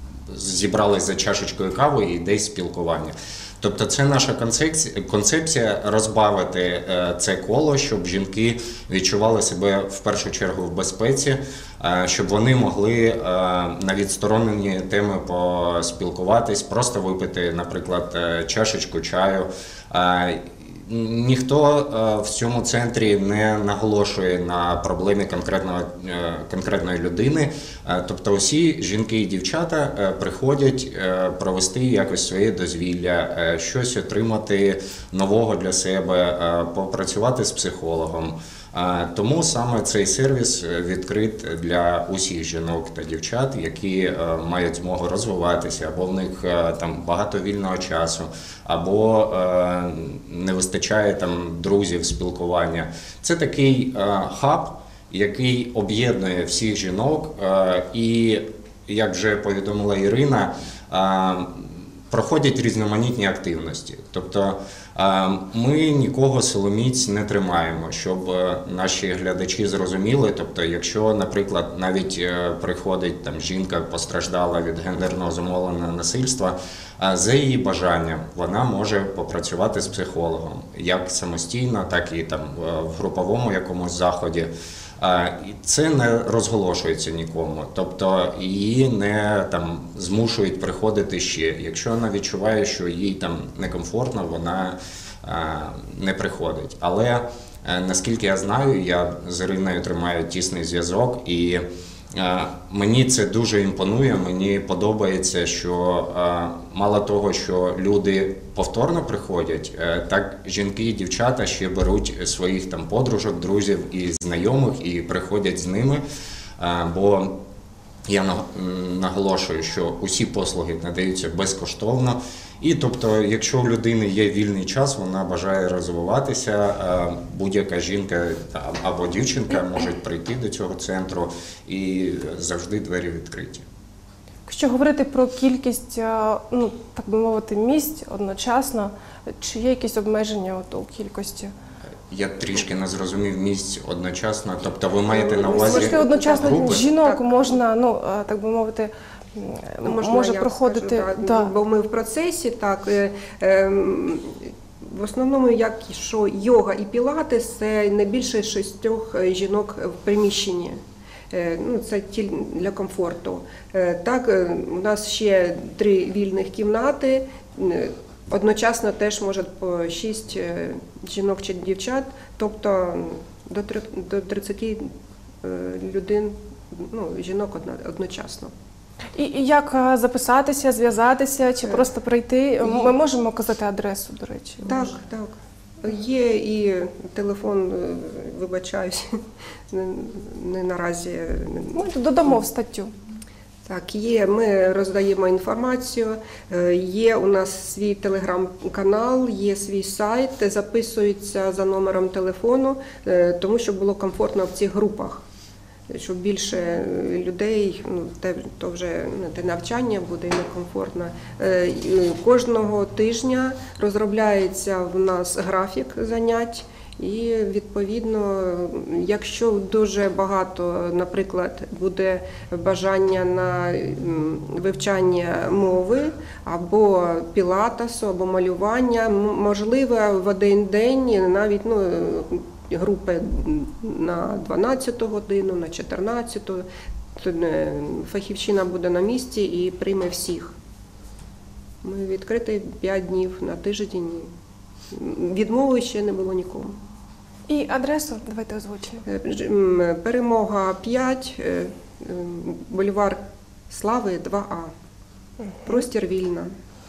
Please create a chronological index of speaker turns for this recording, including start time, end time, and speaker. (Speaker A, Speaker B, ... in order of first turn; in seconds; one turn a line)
Speaker A: 0.3-116.0
Speaker A: 116.6-117.4
Speaker A: 118.1-133.7
Speaker B: 134.5-141.5
Speaker A: 142.1-146.8
Speaker C: 145.1-147.6
Speaker B: 145.5-151.5
Speaker C: 149.8-160.8
Speaker C: 161.3-174.9
Speaker C: 175.4-178.5
Speaker B: 179.2-184.9
Speaker C: 182.6-183.0
Speaker C: 184.7-189.1
Speaker C: 189.7-191.8
Speaker B: 191.7-192.9
Speaker C: 193.7-205.2
Speaker C: 205.9-236.7
Speaker C: 237.2-240.6
Speaker C: 241.8-244.3
Speaker C: 244.9-246.8
Speaker B: 247.5-249.0
Speaker C: 249.1-254.7
Speaker C: 255.7-256.5